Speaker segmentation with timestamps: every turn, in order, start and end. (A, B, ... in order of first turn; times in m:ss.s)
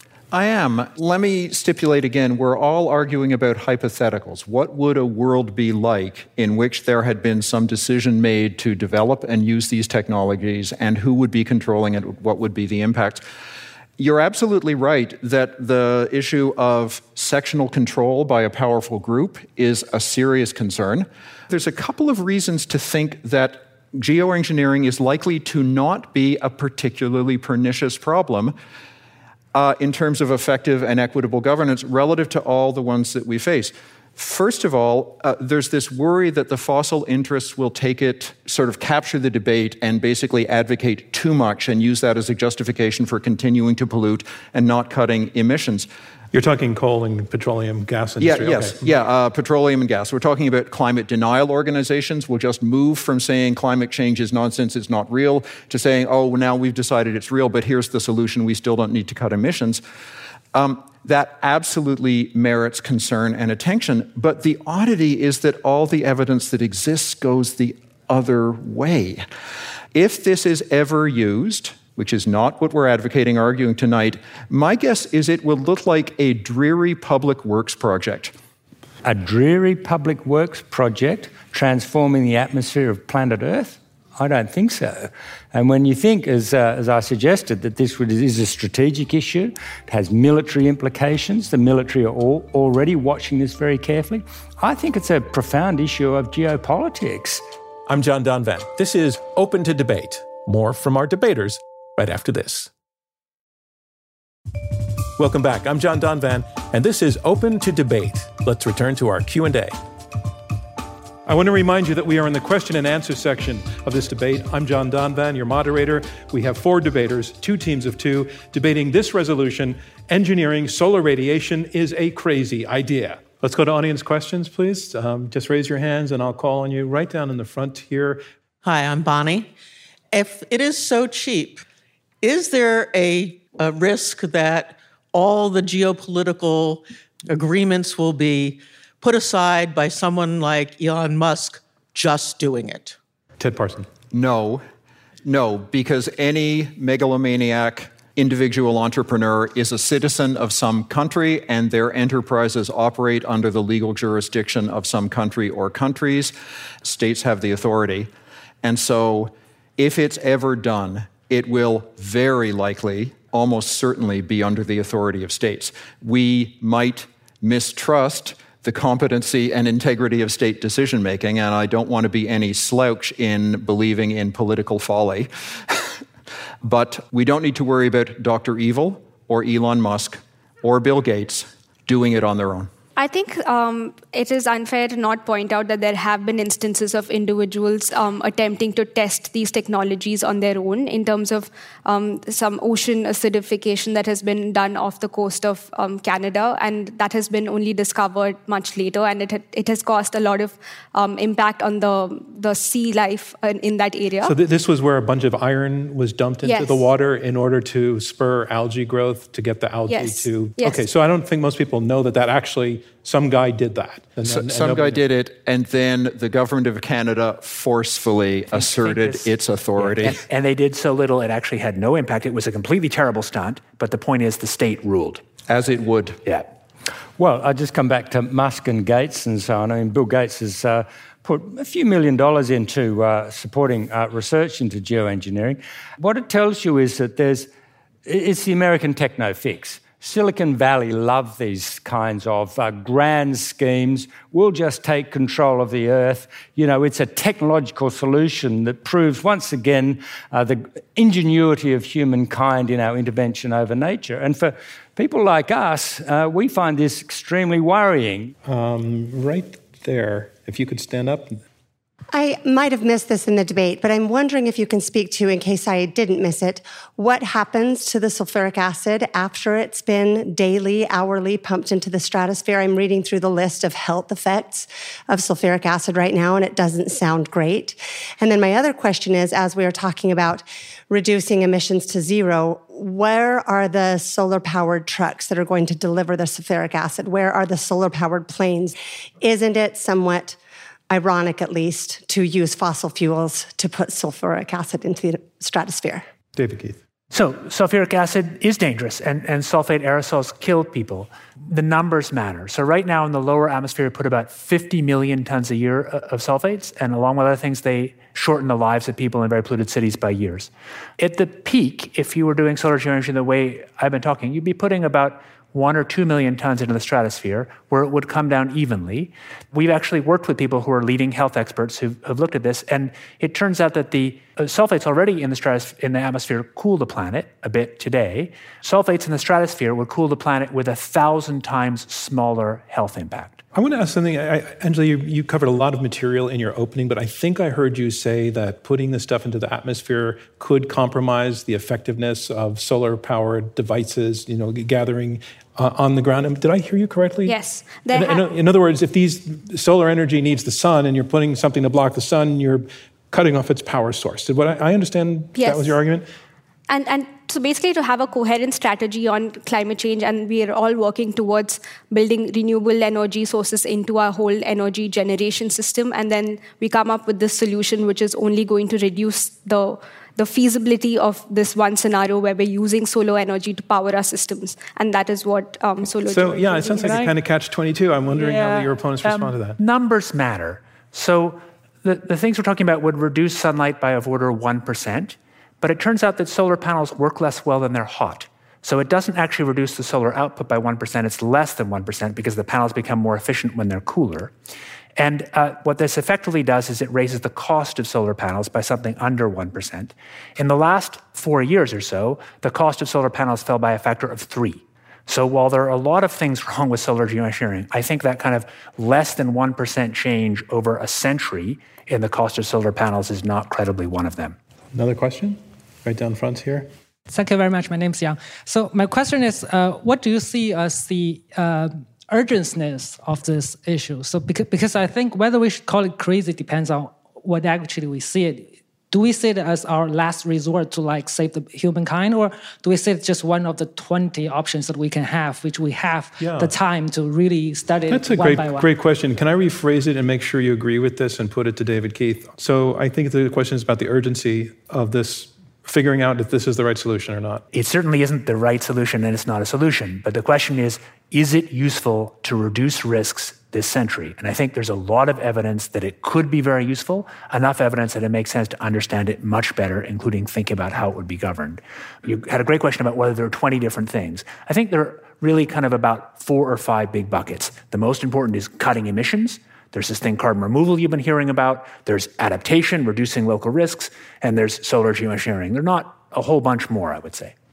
0:00.3-0:13.2 A
0:14.0-0:28.6 A
0:29.5-0:45.9 A
0:46.3-0:48.9 B
0:48.2-0:59.8 A
1:00.5-1:09.3 A
1:10.0-1:18.3 A
1:19.0-1:37.4 C
1:37.9-1:42.7 B
1:45.2-1:49.7 B
1:51.3-2:08.2 B
2:08.6-2:09.5 D
2:10.1-2:11.6 D
2:12.2-2:23.0 D
2:23.4-2:23.9 B
2:24.1-2:24.6 A
2:25.2-2:38.1 A
2:38.6-2:55.9 A
2:56.6-3:02.7 A
3:03.0-3:24.4 E
3:24.2-3:35.0 B
3:26.4-3:26.9 E
3:29.9-3:30.8 E
3:34.2-3:40.2 A
3:38.5-3:45.2 F
3:45.5-3:46.2 A
3:47.2-3:57.5 C
3:58.1-4:18.3 C
4:18.5-4:21.4 B
4:22.1-4:50.4 G
4:50.9-4:56.0 G
4:56.4-4:56.8 B
4:57.1-5:33.4 F
5:33.5-5:47.4 B
5:47.3-5:48.3 E
5:47.9-5:56.1 B
5:55.4-5:55.8 E
5:56.7-6:17.1 E
6:16.1-6:19.6 B
6:18.1-6:34.3 F
6:35.0-6:54.4 F
6:54.7-6:56.7 B
6:57.1-7:18.7 H
7:16.2-7:16.5 B
7:17.9-7:27.4 B
7:27.5-7:57.3 F